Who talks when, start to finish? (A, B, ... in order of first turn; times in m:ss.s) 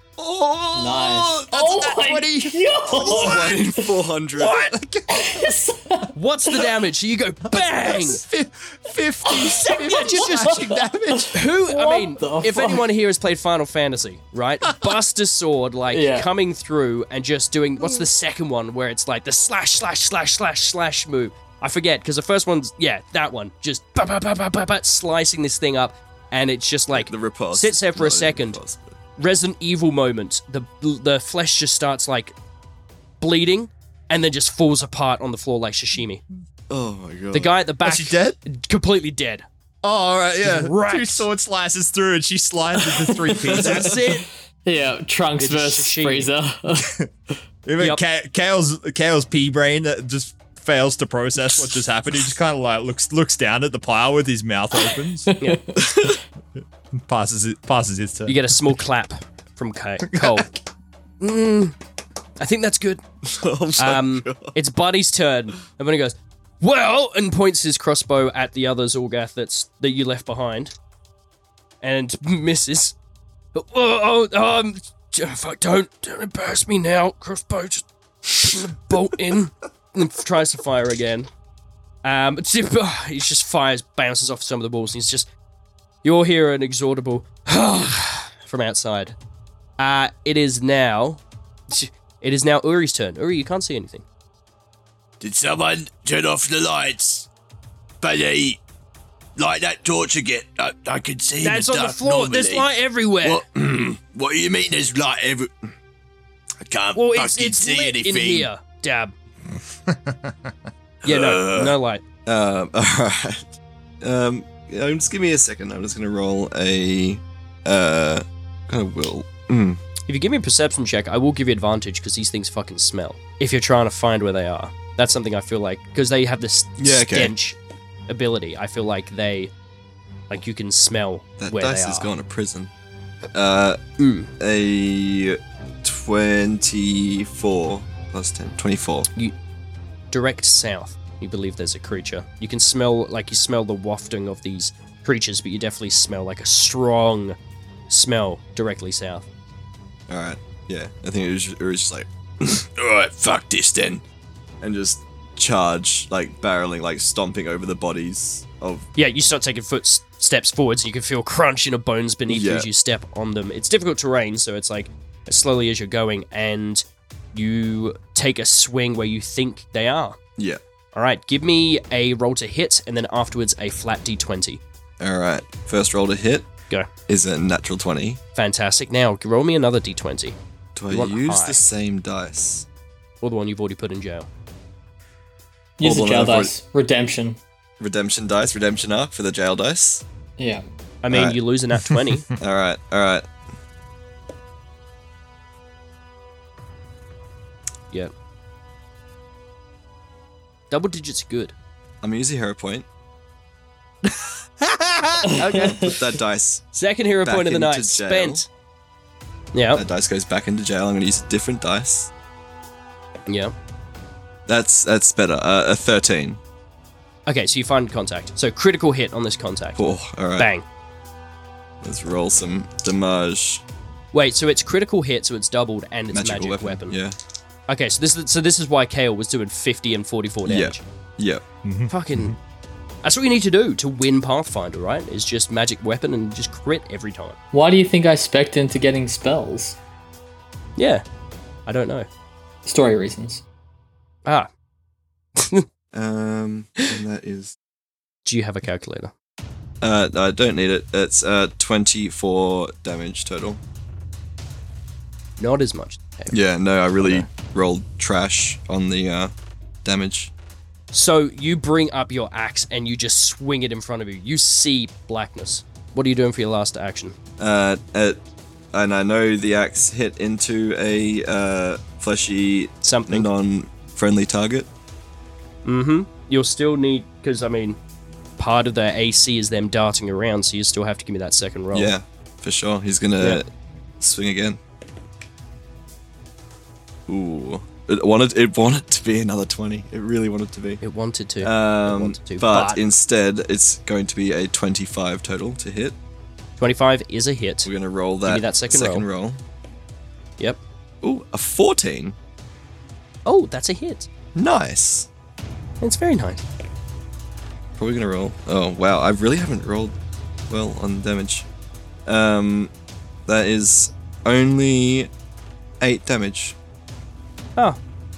0:00.2-0:01.5 A
0:00.8-0:03.9 B
0:01.5-0:03.6 C
0:03.1-0:04.7 A
0:04.4-0:04.7 D
0:04.7-0:05.6 C
0:05.1-0:06.7 B
0:06.1-0:08.2 D
0:07.5-0:11.4 C
0:09.3-0:12.8 B
0:09.6-0:10.7 D
0:11.3-0:28.6 D
0:14.7-0:15.0 C
0:15.9-0:16.3 B
0:26.9-0:29.0 A
0:29.2-0:32.4 D
0:33.2-0:36.2 D
0:36.7-0:37.5 A
0:37.3-0:39.5 D
0:37.8-0:38.4 C
0:39.8-0:44.0 C
0:40.4-0:41.3 D
0:42.8-0:44.0 B
0:43.5-0:44.3 D
0:44.6-0:46.9 B
0:45.4-0:46.3 D
0:46.8-0:47.1 C
0:47.7-0:55.3 C
0:55.3-0:56.0 B
0:55.4-0:55.6 D
0:55.8-0:56.2 A
0:56.9-0:58.4 C
0:58.3-1:00.5 D
1:00.1-1:00.5 C
1:01.2-1:01.8 D
1:02.4-1:03.0 D
1:03.2-1:04.5 A
1:03.8-1:10.7 D
1:11.8-1:13.0 D
1:13.5-1:17.8 D
1:18.4-1:21.3 D
1:22.0-1:25.3 D
1:26.0-1:29.2 D
1:29.8-1:34.0 D
1:35.2-1:37.3 E
1:38.0-1:38.6 E
1:39.4-1:42.7 E
1:41.4-1:43.4 D
1:43.2-1:45.7 E
1:46.6-1:48.5 E
1:47.0-1:49.1 D
1:49.9-1:50.5 C
1:51.0-1:51.8 E
1:51.0-1:52.0 D
1:52.3-1:53.5 A
1:54.0-1:59.8 A
2:00.1-2:09.5 D
2:06.8-2:07.3 A
2:10.3-2:12.1 D
2:11.4-2:12.7 A
2:13.3-2:13.8 A
2:14.0-2:14.3 D
2:14.4-2:19.1 A
2:20.1-2:27.4 D
2:27.9-2:29.3 D
2:30.1-2:32.1 A
2:32.5-2:34.0 E
2:34.6-2:38.9 A
2:39.0-2:50.2 D
2:42.3-2:42.7 A
2:50.9-2:54.6 D
2:55.0-2:56.5 A
2:57.1-2:58.2 A
2:58.4-3:00.4 D
3:00.8-3:02.7 A
3:00.9-3:01.6 D
3:03.2-3:04.3 D
3:05.8-3:07.4 B
3:05.8-3:06.5 A
3:07.8-3:10.0 A
3:10.4-3:10.6 B
3:11.0-3:12.3 D
3:11.1-3:11.4 A
3:11.9-3:12.2 C
3:12.4-3:13.3 A
3:20.7-3:21.5 D
3:22.0-3:22.9 A
3:24.6-3:25.1 C
3:25.2-3:26.0 B
3:25.3-3:26.7 A
3:25.4-3:25.9 D
3:26.7-3:28.5 D
3:27.2-3:28.4 A
3:29.5-3:29.8 D
3:29.8-3:32.1 A
3:33.3-3:33.5 D
3:34.5-3:36.4 A
3:37.3-3:39.8 D
3:39.8-3:40.5 A
3:40.4-3:40.6 D
3:41.8-3:43.6 A
3:44.1-3:47.0 D
3:46.1-3:47.2 A
3:47.7-3:50.8 D
3:50.4-3:51.4 A
3:51.6-3:52.4 C
3:51.9-3:52.4 D
3:53.0-3:57.4 D
3:57.5-3:59.8 B
4:00.8-4:01.0 D
4:01.7-4:02.1 D
4:02.7-4:03.4 B
4:05.4-4:05.7 D
4:05.9-4:07.6 A
4:08.2-4:09.1 D
4:09.8-4:13.6 A
4:15.4-4:16.3 D
4:16.3-4:20.3 A
4:17.0-4:17.3 D
4:20.9-4:27.2 D
4:27.4-4:34.7 A
4:32.8-4:33.3 D
4:35.6-4:37.8 D
4:38.4-4:41.9 D
4:41.7-4:43.5 A
4:44.0-4:44.6 A
4:47.1-4:50.8 A
4:50.8-4:52.8 D
4:51.4-4:56.0 A
4:56.6-4:57.7 D
4:57.6-4:59.4 A
4:58.3-4:59.1 D
5:01.0-5:02.2 A
5:03.3-5:04.1 D
5:04.4-5:05.1 A
5:05.8-5:06.4 D
5:07.8-5:10.0 A
5:10.5-5:11.5 A
5:12.1-5:12.7 A
5:13.3-5:15.1 A
5:15.8-5:16.6 A